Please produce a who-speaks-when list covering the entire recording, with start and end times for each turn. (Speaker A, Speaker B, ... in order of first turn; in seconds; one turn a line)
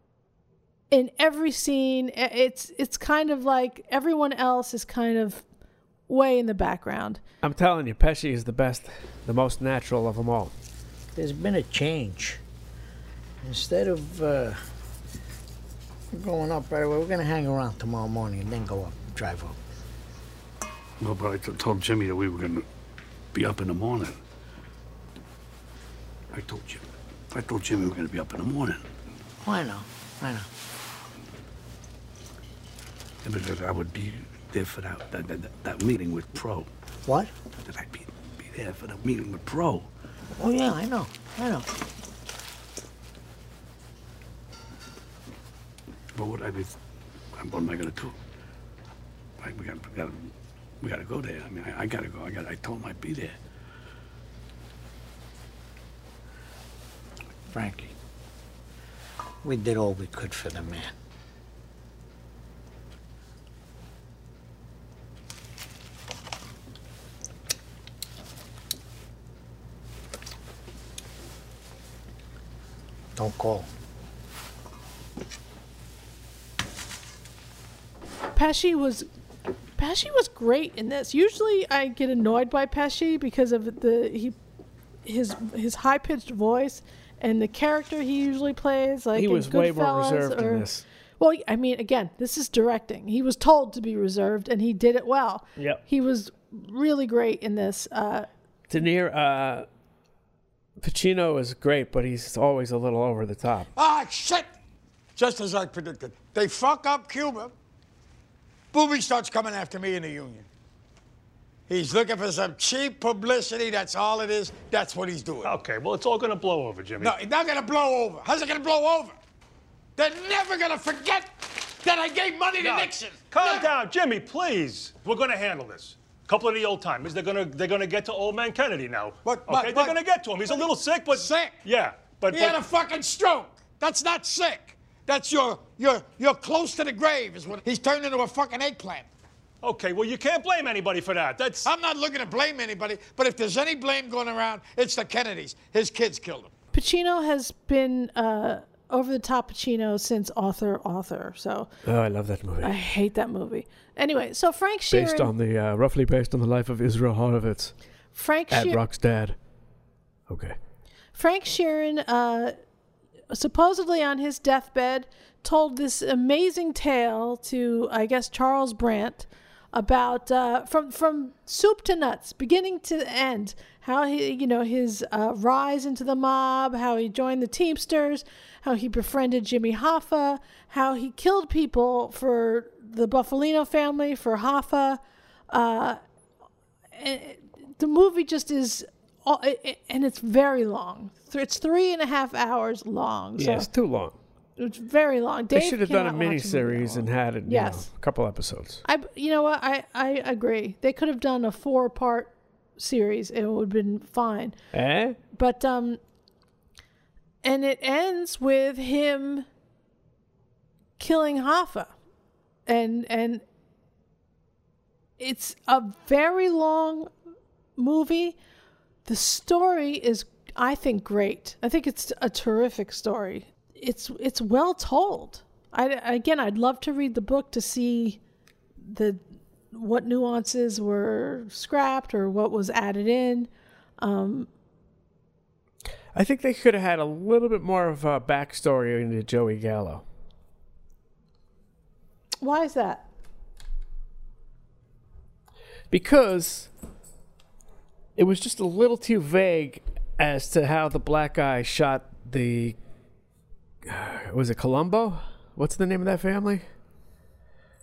Speaker A: 0.9-5.4
Speaker A: 6.1-7.2
Speaker B: 7.4-10.5
Speaker C: 11.2-12.4
Speaker C: 13.4-14.6
Speaker C: 16.1-19.6
Speaker D: 21.0-22.6
Speaker D: 23.3-24.2
Speaker D: 26.3-28.9
Speaker C: 29.4-30.5
Speaker D: 33.2-36.7
Speaker C: 37.0-37.3
Speaker D: 37.6-39.9
Speaker C: 40.4-41.7
Speaker D: 46.1-46.7
Speaker D: 47.4-48.1
Speaker D: 49.4-53.4
Speaker C: 57.5-57.9
Speaker C: 59.4-60.9
Speaker C: 73.2-73.7
Speaker A: 78.3-79.1
Speaker A: 79.8-84.3
Speaker A: 85.0-90.7
Speaker B: 89.1-90.8
Speaker A: 91.2-98.3
Speaker B: 95.5-95.8
Speaker B: 98.7-99.7
Speaker B: 100.8-103.7
Speaker E: 103.8-104.5
Speaker E: 105.2-107.5
Speaker E: 108.7-110.5
Speaker E: 111.7-115.5
Speaker F: 115.4-117.2
Speaker E: 117.0-119.2
Speaker E: 120.0-123.7
Speaker F: 122.6-132.6
Speaker E: 129.2-130.0
Speaker E: 130.5-131.6
Speaker E: 132.3-139.1
Speaker F: 139.6-141.7
Speaker E: 141.6-146.5
Speaker A: 146.7-151.7
Speaker B: 151.8-152.8
Speaker A: 152.6-155.3
Speaker B: 154.9-157.7
Speaker A: 158.1-158.8
Speaker B: 158.5-159.3
Speaker B: 160.3-160.6
Speaker A: 161.1-162.5
Speaker A: 163.3-185.0
Speaker A: 185.5-186.0
Speaker A: 186.9-193.7
Speaker B: 193.4-194.2
Speaker A: 194.6-197.8
Speaker B: 195.5-198.8
Speaker A: 198.8-204.5
Speaker B: 204.7-205.2
Speaker A: 205.3-206.0
Speaker A: 207.4-209.4
Speaker A: 211.0-211.9
Speaker A: 212.7-213.4
Speaker A: 215.2-217.1
Speaker A: 217.8-218.3
Speaker A: 219.0-228.2
Speaker A: 228.8-229.2
Speaker A: 229.7-234.5
Speaker B: 236.1-240.0
Speaker A: 242.4-243.0
Speaker B: 245.9-246.7
Speaker B: 248.2-252.8
Speaker B: 253.8-256.6